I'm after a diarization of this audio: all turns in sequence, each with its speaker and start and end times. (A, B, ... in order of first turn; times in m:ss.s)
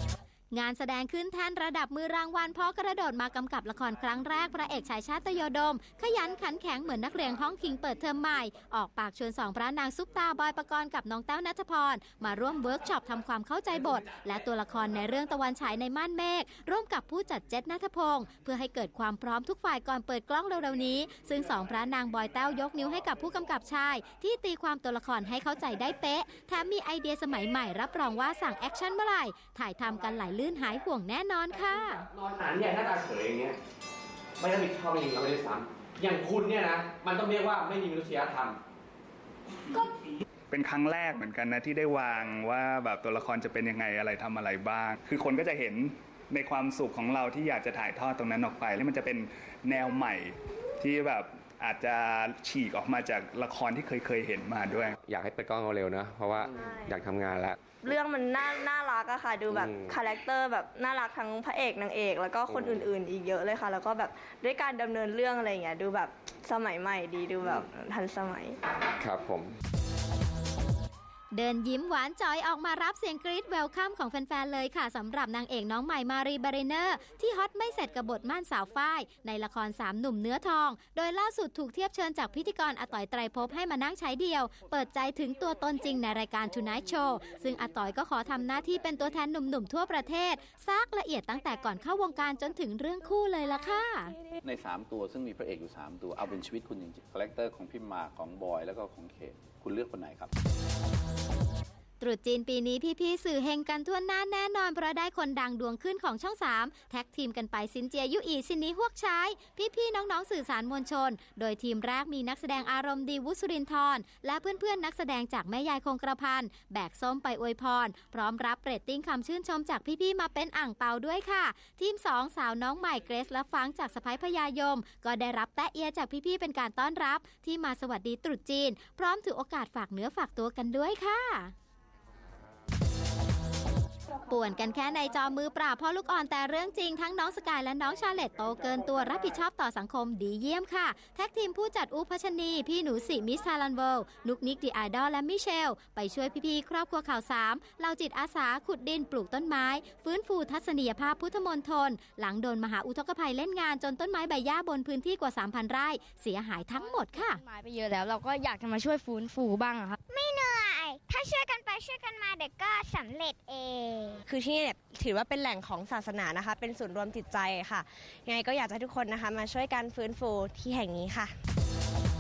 0:00.5-0:32.1 A
0:32.1-0:33.6 B
0:34.4-0:38.6 B
0:40.5-0:55.0 C
0:55.0-0:57.6 D
0:56.6-0:56.9 E
0:57.8-1:08.5 E
0:59.5-1:00.0 D
1:09.0-1:09.5 D
1:11.3-1:34.1 A
1:34.4-1:40.3 F
1:42.0-2:11.5 A
2:14.3-2:37.4 A
2:36.8-2:40.0 G
2:40.1-2:44.2 H
2:44.3-2:46.8 I
2:48.3-2:51.2 I